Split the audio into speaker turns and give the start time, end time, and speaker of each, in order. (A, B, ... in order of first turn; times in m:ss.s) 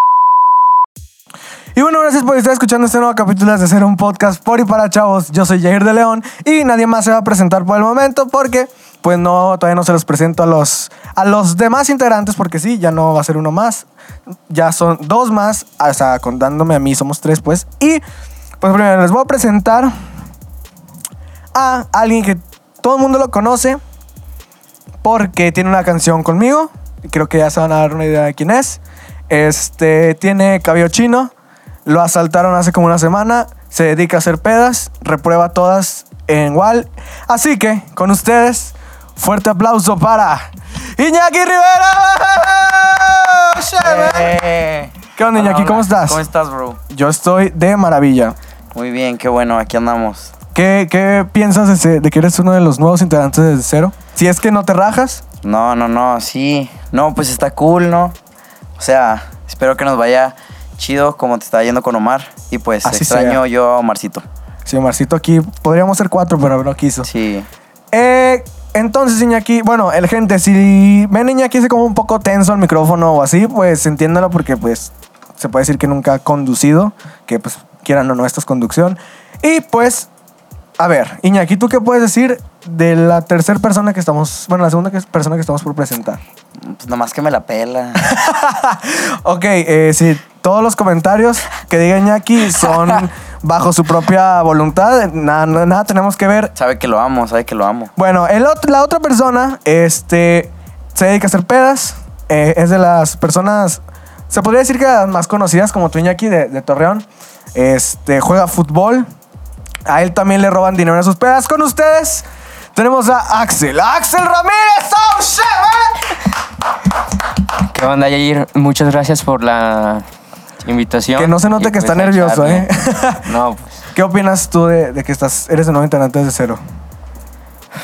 0:01.7-0:13.8 A
0:14.5-0:18.0 A
0:18.6-0:19.9 A
0:21.5-0:23.8 A
0:25.0-0:31.3 A
0:31.8-0:44.4 A
0:43.8-0:46.8 B
0:45.2-0:46.2 A
0:46.9-0:48.4 A
0:48.7-0:50.3 B
0:50.5-0:55.2 A
0:55.4-0:58.2 B
0:58.8-1:04.2 B
1:02.8-1:03.4 A
1:04.6-1:07.1 A
1:07.0-1:07.5 B
1:07.9-1:20.1 A
1:20.8-1:26.2 A
1:26.6-1:28.1 B
1:28.0-1:36.5 A
1:36.6-1:37.9 B
1:38.0-1:49.0 A
1:49.9-1:56.2 A
1:57.7-2:00.0 C
2:00.6-2:02.7 C
2:01.2-2:03.3 A
2:03.2-2:03.8 C
2:03.9-2:06.6 A